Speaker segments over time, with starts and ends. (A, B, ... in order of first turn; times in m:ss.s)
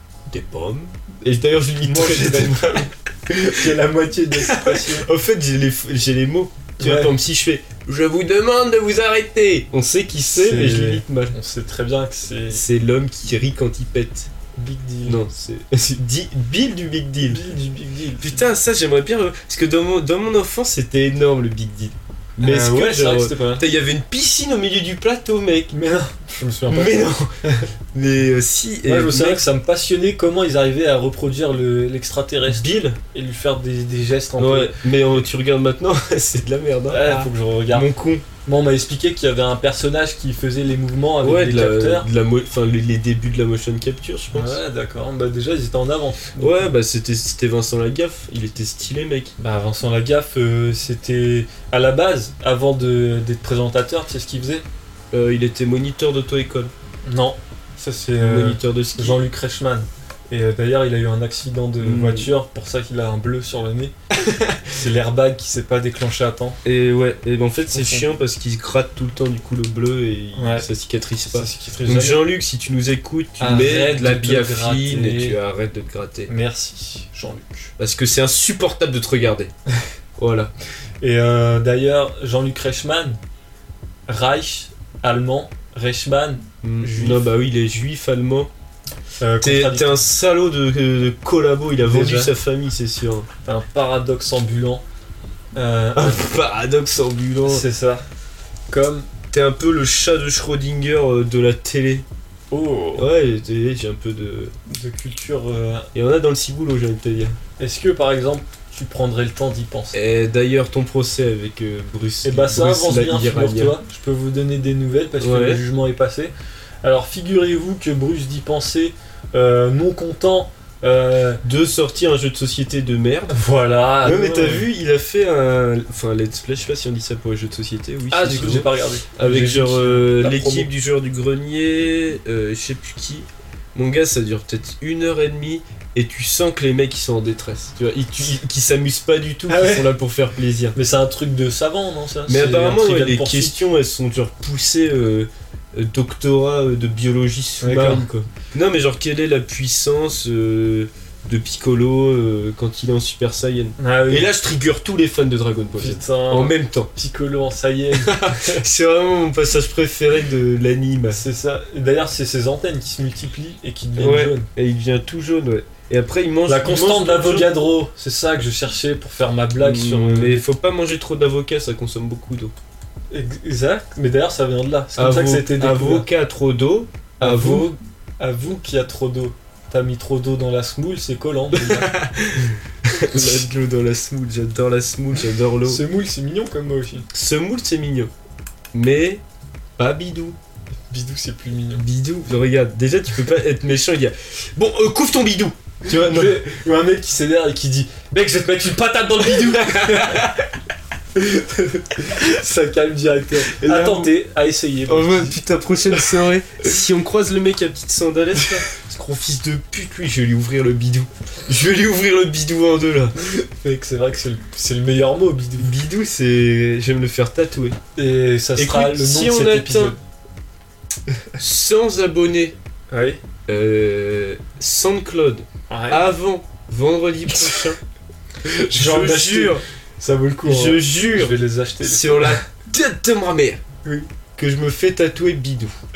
0:00.3-0:03.7 A
0:01.8-0:05.1 B
0:04.3-0:11.4 A
0:06.8-0:07.2 B
0:10.3-0:12.6 B
0:12.5-0:14.3 A
0:14.6-0:15.2 B
0:15.0-0:17.4 A
0:17.2-0:18.5 B
0:18.2-0:25.8 A
0:22.4-0:23.7 B
0:25.7-0:27.6 B
0:26.7-0:27.3 A
0:27.9-0:29.4 A
0:28.9-0:34.8 B
0:32.5-0:33.0 A
0:34.4-0:38.2 A
0:36.9-0:37.9 B
0:38.4-0:42.1 B
0:41.2-0:44.6 A
0:44.3-0:46.7 B
0:46.4-0:49.3 A
0:49.4-0:54.7 B
0:55.1-0:56.7 A
0:57.0-1:03.9 B
0:58.2-0:59.2 A
1:01.8-1:02.3 A
1:04.2-1:04.6 A
1:04.7-1:06.6 B
1:06.6-1:16.3 A
1:07.7-1:08.1 B
1:10.4-1:10.7 B
1:11.3-1:12.3 B
1:13.4-1:15.4 B
1:16.3-1:17.7 B
1:17.8-1:19.5 A
1:20.2-1:20.5 A
1:21.0-1:23.2 B
1:24.1-1:27.2 B
1:26.6-1:28.5 A
1:29.2-1:30.0 B
1:29.4-1:33.3 A
1:31.8-1:32.3 B
1:33.4-1:34.8 B
1:35.6-1:36.3 B
1:36.0-1:37.6 A
1:37.4-1:38.0 B
1:38.7-1:39.1 B
1:39.3-1:42.0 A
1:42.5-1:43.1 B
1:43.0-1:44.6 A
1:44.7-1:45.9 B
1:45.9-1:47.4 A
1:47.6-1:50.0 B
1:49.9-1:53.8 A
1:52.2-2:01.4 B
1:55.2-1:55.6 A
2:01.4-2:03.4 A
2:03.3-2:04.7 B
2:04.0-2:20.8 A
2:08.1-2:10.7 B
2:19.5-2:19.9 B
2:20.8-2:23.6 B
2:22.3-2:36.9 A
2:27.6-2:28.1 B
2:33.8-2:34.3 B
2:35.8-2:38.6 B
2:38.0-2:41.2 A
2:41.1-2:44.5 B
2:44.0-2:47.5 A
2:46.5-2:50.4 B
2:49.6-2:52.5 A
2:53.1-2:56.1 B
2:55.0-2:57.8 A
2:57.2-3:01.9 B
3:01.5-3:05.8 A
3:03.1-3:03.4 B
3:05.6-3:07.1 B
3:07.1-3:08.1 A
3:08.7-3:09.2 A
3:09.8-3:10.4 A
3:10.9-3:11.8 B
3:11.8-3:16.5 A
3:15.9-3:20.4 B
3:19.4-3:20.5 A
3:21.2-3:25.4 B
3:23.4-3:24.1 A
3:24.9-3:33.4 A
3:25.9-3:26.2 B
3:33.6-3:35.7 B
3:35.6-3:37.8 A
3:38.0-3:40.0 B
3:38.6-3:40.0 A
3:41.4-3:42.6 A
3:42.9-3:43.2 B
3:43.5-3:47.8 A
3:45.7-3:46.0 B
3:47.3-3:47.6 B
3:48.4-3:49.6 A
3:48.7-3:52.4 B
3:50.4-3:53.6 A
3:53.8-3:54.1 B
3:54.4-3:55.8 A